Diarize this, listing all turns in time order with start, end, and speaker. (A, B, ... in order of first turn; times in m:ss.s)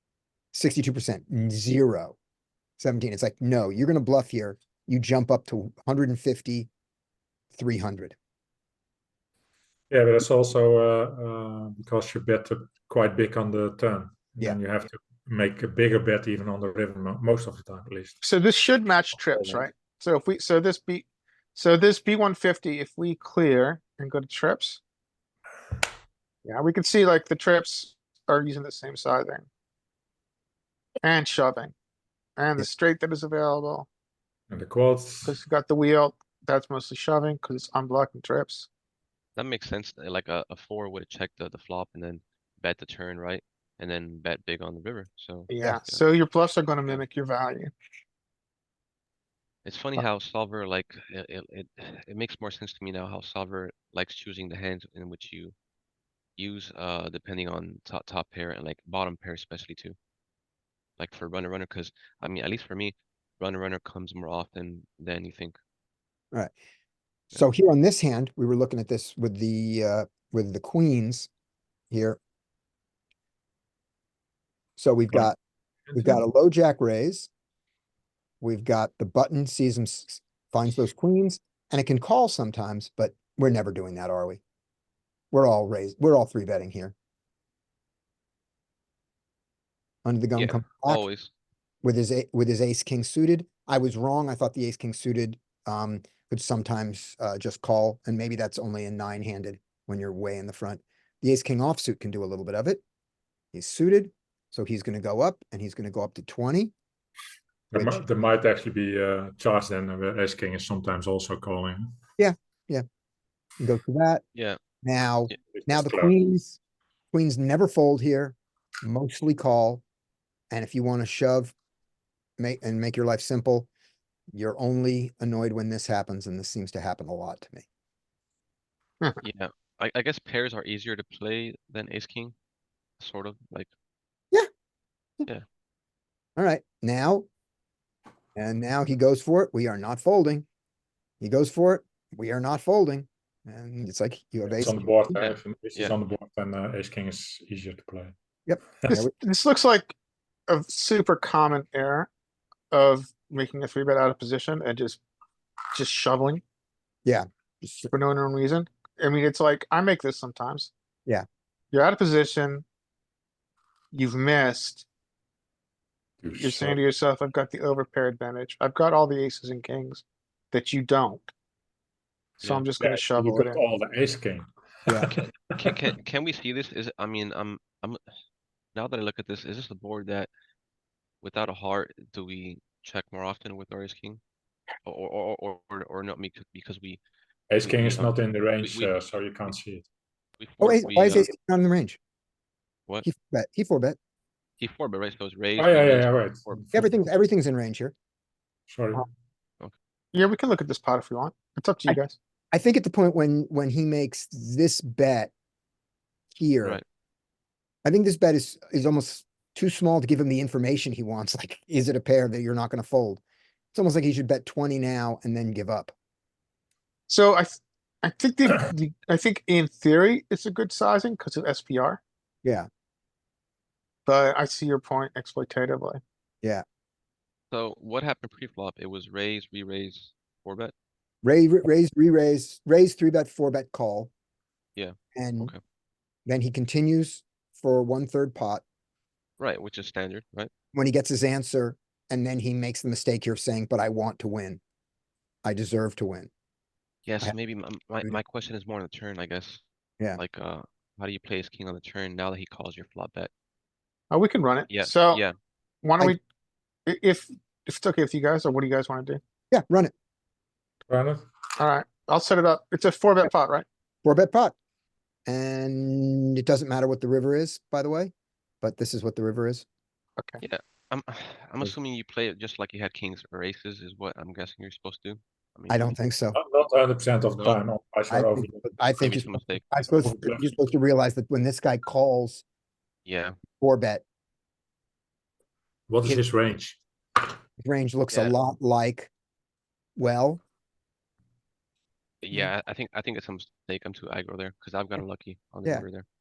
0:00.5-0:02.2 A
0:02.8-0:06.7 A
0:07.5-0:08.2 A
0:09.9-0:18.2 B
0:18.2-0:24.8 C
0:19.2-0:19.6 B
0:26.4-0:29.5 C
0:31.0-0:31.7 C
0:32.4-0:33.9 C
0:34.5-0:35.4 B
0:35.3-0:38.7 C
0:39.4-0:46.0 D
0:45.5-0:47.7 C
0:49.6-0:55.5 D
0:56.4-1:00.0 D
1:01.0-1:05.6 D
1:07.3-1:11.3 A
1:11.9-1:12.2 A
1:14.8-1:15.4 A
1:15.9-1:16.2 B
1:16.0-1:17.3 A
1:18.4-1:24.4 A
1:25.3-1:27.0 A
1:30.0-1:31.0 A
1:30.4-1:31.3 D
1:31.8-1:42.8 A
1:43.5-1:46.7 A
1:47.7-1:52.0 B
1:47.7-1:48.0 A
1:52.2-1:52.8 A
1:53.6-1:54.2 A
1:54.8-1:56.6 A
1:55.5-1:56.2 B
1:57.1-1:59.8 A
2:00.5-2:01.5 A
2:02.4-2:03.7 A
2:04.3-2:07.7 A
2:09.2-2:12.4 D
2:13.0-2:13.7 D
2:16.4-2:17.3 A
2:18.4-2:20.5 A
2:21.2-2:24.9 A
2:24.6-2:28.1 B
2:25.2-2:26.0 D
2:28.5-2:29.1 A
2:28.9-2:29.9 C
2:30.5-2:32.1 C
2:32.7-2:35.0 C
2:35.7-2:36.4 C
2:37.1-2:37.9 A
2:37.9-2:40.7 C
2:41.7-2:42.6 C
2:43.9-2:44.8 C
2:46.2-2:46.8 B
2:46.4-2:51.3 C
2:52.4-2:53.6 C
2:52.8-2:55.2 B
2:55.1-2:58.0 D
2:58.8-3:00.3 D
3:01.2-3:04.2 D
3:04.8-3:07.0 D
3:07.5-3:09.8 B
3:07.6-3:08.9 D
3:10.4-3:11.3 D
3:10.6-3:12.0 A
3:13.0-3:14.0 A
3:14.6-3:16.7 D
3:15.6-3:16.9 B
3:16.7-3:17.9 A
3:18.7-3:19.0 B
3:20.1-3:22.2 C
3:22.5-3:25.3 A
3:26.3-3:26.8 A
3:27.8-3:33.2 A
3:33.7-3:35.9 A
3:37.1-3:42.0 C
3:44.1-3:46.0 C
3:47.5-3:50.7 D
3:51.2-3:54.1 A
3:54.8-3:55.6 D
3:55.2-3:55.5 A
3:56.3-3:58.6 A
3:59.4-4:00.5 D
4:00.7-4:04.6 A
4:05.4-4:06.3 A
4:07.0-4:09.6 D
4:10.2-4:13.3 D
4:14.1-4:15.2 C
4:14.7-4:15.4 D
4:15.8-4:16.2 C
4:16.9-4:19.2 C
4:19.5-4:19.9 A
4:20.9-4:21.2 B
4:21.6-4:23.6 C
4:24.0-4:24.6 A
4:25.3-4:29.6 A
4:30.4-4:36.0 D
4:35.7-4:36.4 A
4:36.3-4:38.6 B
4:38.1-4:42.4 A
4:39.0-4:39.6 D
4:39.9-4:40.6 B
4:43.1-4:43.4 D
4:43.6-4:44.0 A
4:45.9-4:46.8 B
4:47.6-4:49.1 A
4:48.1-4:48.4 D
4:50.0-4:50.4 A
4:52.2-4:56.0 D